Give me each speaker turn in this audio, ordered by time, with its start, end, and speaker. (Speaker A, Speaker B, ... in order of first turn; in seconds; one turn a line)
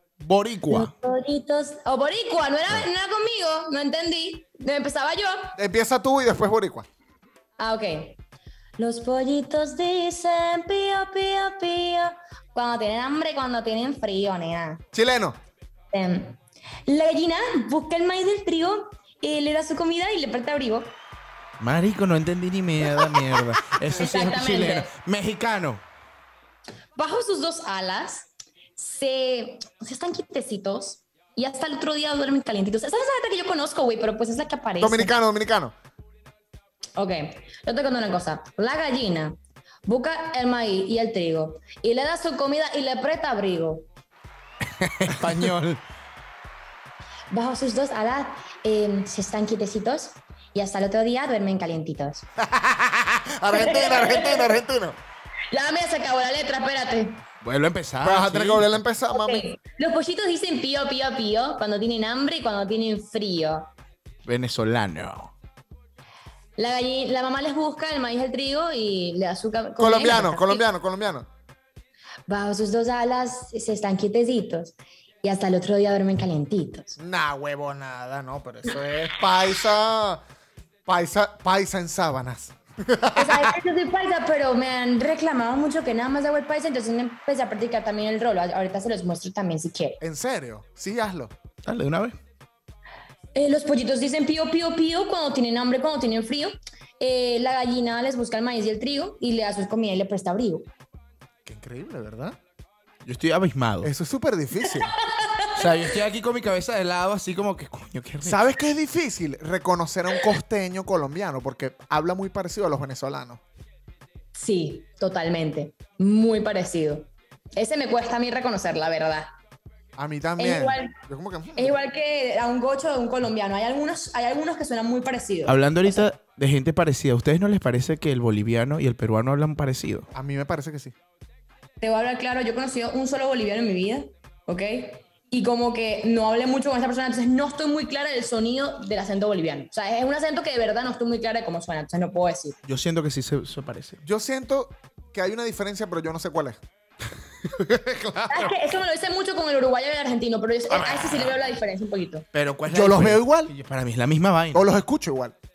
Speaker A: 0.2-0.9
Speaker B: 0.7-5.5
Speaker C: 5.6-6.9
Speaker B: 7.6-8.2
Speaker B: 8.8-14.8
Speaker C: 14.9-15.4
Speaker B: 15.9-21.0
Speaker A: 21.6-25.8
Speaker B: 23.9-24.9
Speaker B: 26.9-35.1
Speaker C: 34.8-35.7
Speaker B: 37.0-43.9
Speaker A: 44.8-45.8
Speaker B: 47.3-52.3
Speaker C: 52.4-55.0
Speaker B: 53.5-54.6
Speaker B: 55.5-57.2
Speaker A: 57.4-58.7
Speaker C: 58.0-59.5
Speaker B: 59.1-63.7
Speaker A: 64.2-65.3
Speaker B: 66.6-70.7
Speaker C: 69.8-71.3
Speaker B: 72.3-77.0
Speaker C: 77.0-80.2
Speaker C: 80.9-83.5
Speaker B: 83.1-90.0
Speaker C: 90.0-91.3
Speaker A: 91.6-92.1
Speaker B: 93.3-100.7
Speaker C: 101.4-102.4
Speaker A: 103.0-103.9
Speaker C: 103.8-104.9
Speaker B: 105.0-105.7
Speaker A: 105.5-108.5
Speaker C: 108.2-113.4
Speaker B: 114.3-119.3
Speaker C: 120.0-121.8
Speaker B: 120.4-120.9
Speaker B: 121.5-126.1
Speaker A: 125.5-130.1
Speaker C: 130.1-130.9
Speaker B: 131.8-142.6
Speaker A: 142.7-144.0
Speaker C: 144.0-146.6
Speaker A: 147.4-148.5
Speaker B: 148.3-152.3
Speaker A: 150.7-151.3
Speaker A: 152.3-154.7
Speaker C: 152.7-153.5
Speaker C: 154.5-155.3